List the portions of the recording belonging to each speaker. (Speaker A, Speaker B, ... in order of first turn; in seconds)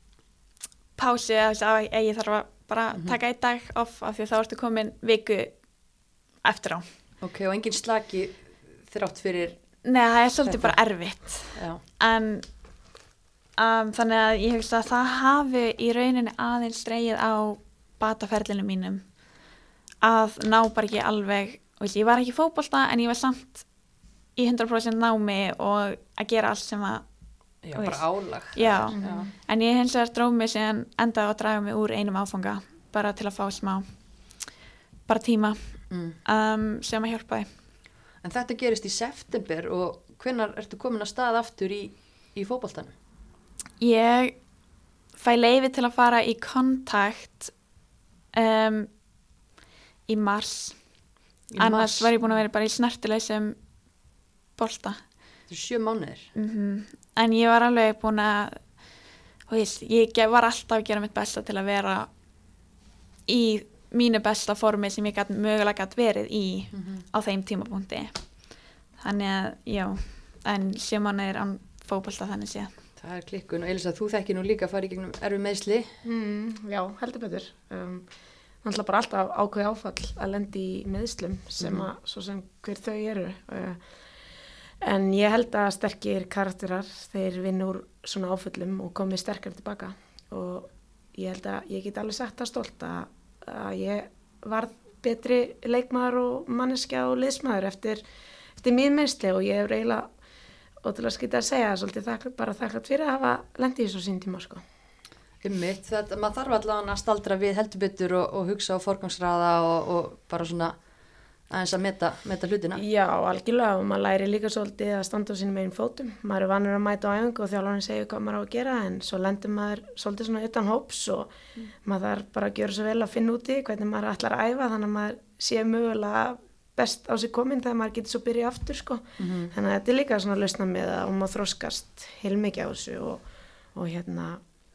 Speaker A: 1.0-5.7, 6.4-6.9, 9.8-12.5, 13.6-19.2, 20.0-23.7, 24.4-27.0, 27.7-33.9, 35.1-37.5, 43.8-44.4, 45.2-47.6, 48.4-48.9, 50.1-50.9, 51.6-53.6, 54.6-55.0, 56.4-58.8, 59.5-62.1, 63.3-68.4, 69.0-72.7
Speaker B: 7.2-9.6, 10.4-10.8, 11.4-11.8, 27.6-29.3, 35.9-36.2, 38.2-42.9, 51.5-52.1, 55.5-56.3, 66.7-67.0, 73.0-75.9, 81.6-81.9, 105.4-110.8, 111.5-112.8, 129.2-129.5
Speaker C: 28.9-29.3, 76.0-78.1, 78.6-83.8, 84.8-98.0, 98.6-100.1, 100.8-104.6, 112.8-121.3, 121.8-134.4